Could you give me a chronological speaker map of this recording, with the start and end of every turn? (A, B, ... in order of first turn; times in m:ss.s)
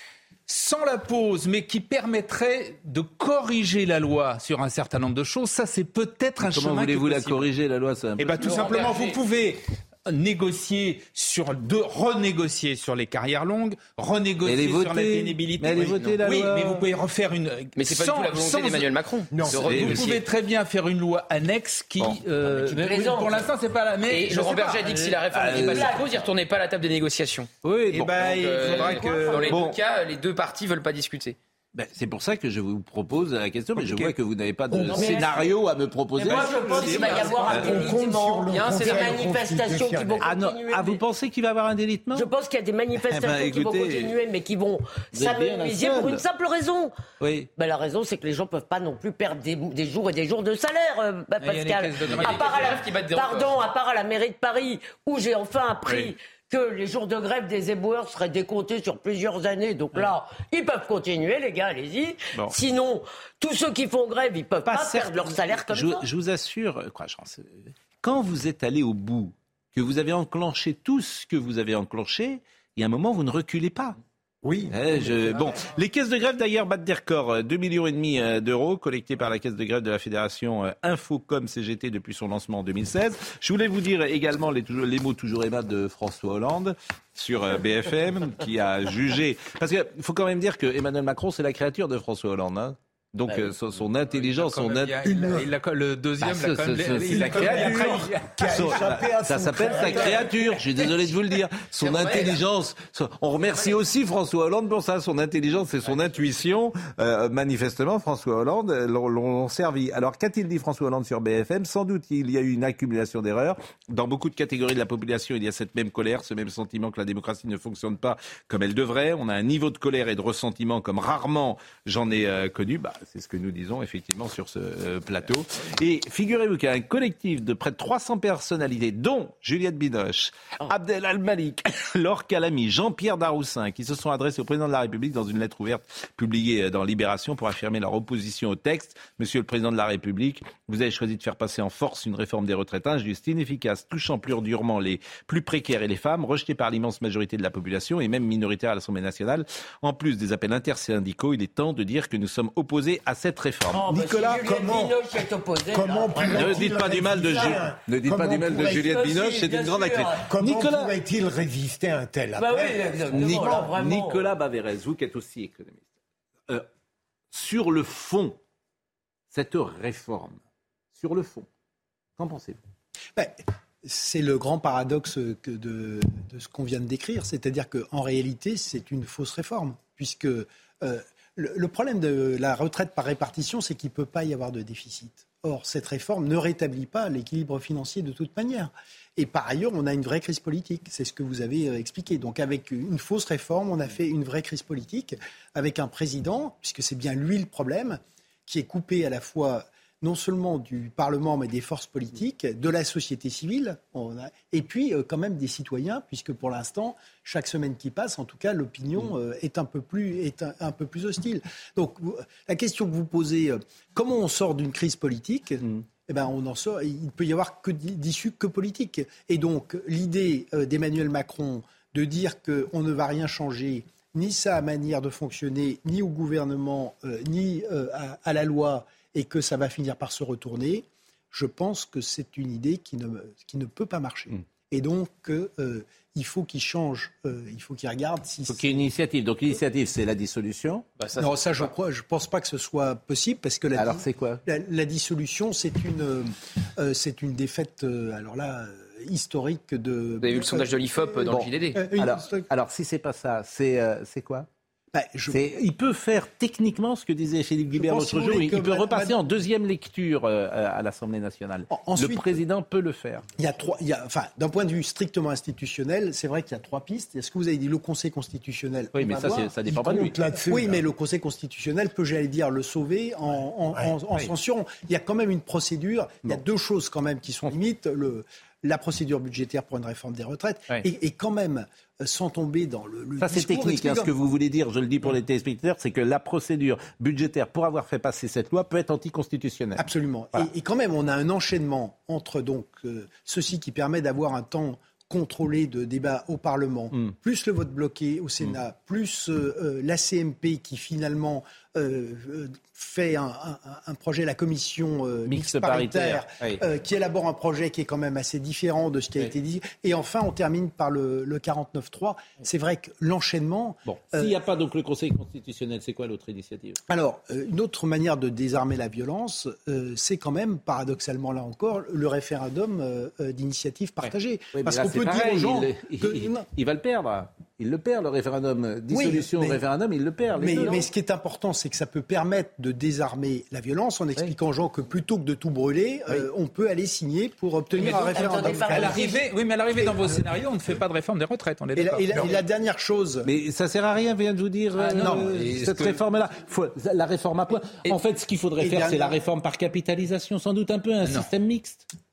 0:00.5-0:07.5 A
0:06.4-0:08.6 B
0:08.2-0:18.9 A
0:08.4-0:09.2 C
0:14.4-0:16.9 B
0:17.8-0:20.2 C
0:19.3-0:20.0 D
0:19.6-0:20.1 B
0:19.7-0:25.6 A
0:22.0-0:22.9 B
0:22.7-0:23.4 E
0:24.0-0:27.5 C
0:25.3-0:26.0 B
0:25.7-0:26.0 E
0:27.6-0:29.8 B
0:27.9-0:29.7 A
0:28.2-0:31.4 C
0:31.7-0:37.9 B
0:33.8-0:34.2 A
0:34.7-0:35.1 D
0:34.8-0:35.6 E
0:36.2-0:41.0 E
0:36.2-0:37.7 A
0:37.6-0:40.3 D
0:38.5-0:39.3 C
0:40.2-0:42.3 B
0:42.1-0:46.9 E
0:43.1-0:44.1 B
0:45.1-0:46.2 B
0:47.2-0:47.5 B
0:47.6-1:06.1 E
0:51.4-0:52.7 A
0:52.1-0:53.6 C
1:04.6-1:13.9 B
1:14.4-1:15.6 D
1:14.7-1:35.1 B
1:34.0-1:38.8 A
1:35.0-1:35.5 D
1:36.2-2:33.9 B
1:37.2-1:40.4 D
1:40.3-1:41.1 A
1:41.8-1:42.4 E
2:33.7-2:36.8 E
2:33.9-2:35.0 D
2:35.7-2:39.5 D
2:36.2-2:41.0 B
2:38.6-2:40.2 E
2:40.2-2:42.9 D
2:42.4-2:44.3 E
2:43.1-2:45.8 B
2:47.3-2:48.4 B
2:49.3-2:50.4 B
2:50.9-2:51.5 B
2:52.2-2:52.6 B
2:53.2-3:58.9 F
3:58.5-4:00.9 B
4:01.1-4:12.5 F
4:03.7-4:04.4 B
4:10.2-4:11.8 C
4:11.3-4:14.5 B
4:14.9-4:15.4 F
4:15.3-4:23.3 B
4:17.7-4:19.2 F
4:21.7-4:22.4 F
4:23.4-4:44.1 F
4:28.9-4:30.2 B
4:29.7-4:30.8 D
4:43.2-4:50.5 B
4:49.8-5:14.3 F
5:05.3-5:06.6 B
5:13.8-5:16.8 B
5:16.9-5:26.5 F
5:24.0-5:30.8 B
5:28.9-5:29.6 F
5:30.3-5:38.9 F
5:37.7-5:39.2 E
5:38.6-5:42.3 A
5:41.8-5:43.3 F
5:43.2-5:51.9 B
5:44.7-5:46.0 A
5:45.0-5:45.3 F
5:48.6-5:49.2 F
5:51.0-5:51.3 A